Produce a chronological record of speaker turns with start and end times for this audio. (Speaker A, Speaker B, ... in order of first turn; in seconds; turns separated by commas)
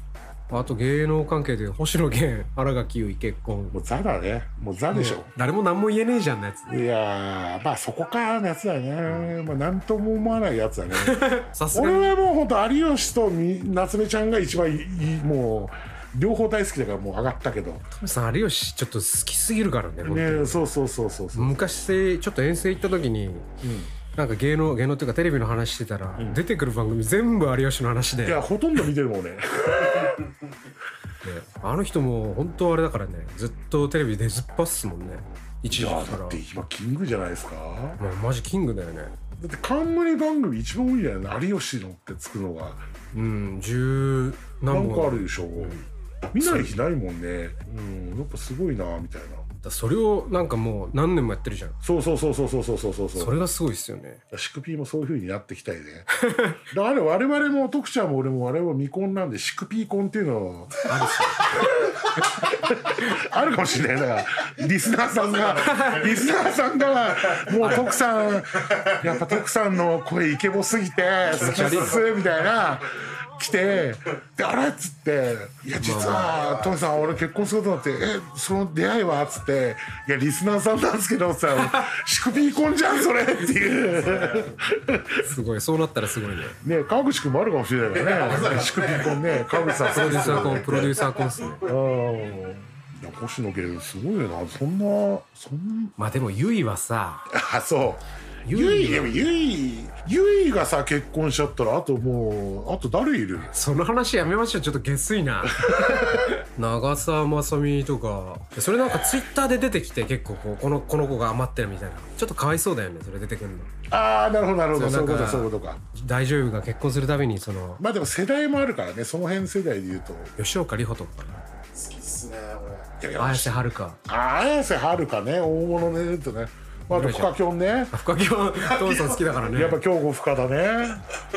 Speaker A: 0.5-3.8, Speaker B: 3.7-5.3, Speaker A: 4.9-6.7, Speaker B: 6.7-17.9, Speaker A: 9.1-9.3, Speaker A: 10.9-12.1, Speaker A: 17.9-20.7, Speaker B: 20.0-21.6, Speaker A: 21.3-23.5, Speaker B: 23.6-23.9, Speaker A: 24.1-28.4, Speaker B: 28.2-30.2, Speaker A: 31.2-36.4, Speaker B: 35.7-38.0, Speaker A: 38.0-39.1, Speaker B: 39.4-42.9, Speaker A: 43.1-45.9, Speaker B: 44.7-45.8, Speaker B: 46.3-49.5, Speaker A: 46.4-46.7, Speaker A: 49.6-51.8, Speaker B: 51.8-53.4, Speaker A: 53.1-54.2, Speaker B: 54.3-85.3, Speaker A: 56.2-56.6, Speaker A: 60.9-61.6, Speaker C: 65.1-69.4, Speaker A: 65.6-66.1, Speaker A: 67.6-67.9, Speaker A: 71.3-72.0, Speaker C: 71.5-72.5, Speaker A: 75.8-76.4, Speaker C: 76.0-77.2, Speaker C: 83.7-84.6, Speaker A: 85.2-86.6, Speaker B: 86.6-91.0, Speaker C: 87.9-91.8, Speaker A: 89.8-91.6, Speaker B: 91.6-95.9, Speaker A: 96.0-97.2, Speaker B: 97.3-103.5, Speaker A: 98.5-99.2, Speaker A: 103.5-113.7, Speaker B: 105.6-106.3, Speaker B: 113.9-115.8, Speaker A: 114.7-117.8, Speaker B: 117.8-120.3, Speaker A: 120.4-121.4, Speaker C: 121.7-122.9, Speaker B: 123.0-128.0, Speaker A: 123.2-124.0, Speaker A: 126.9-127.3, Speaker A: 127.9-129.8, Speaker C: 128.6-129.4, Speaker B: 129.5-131.0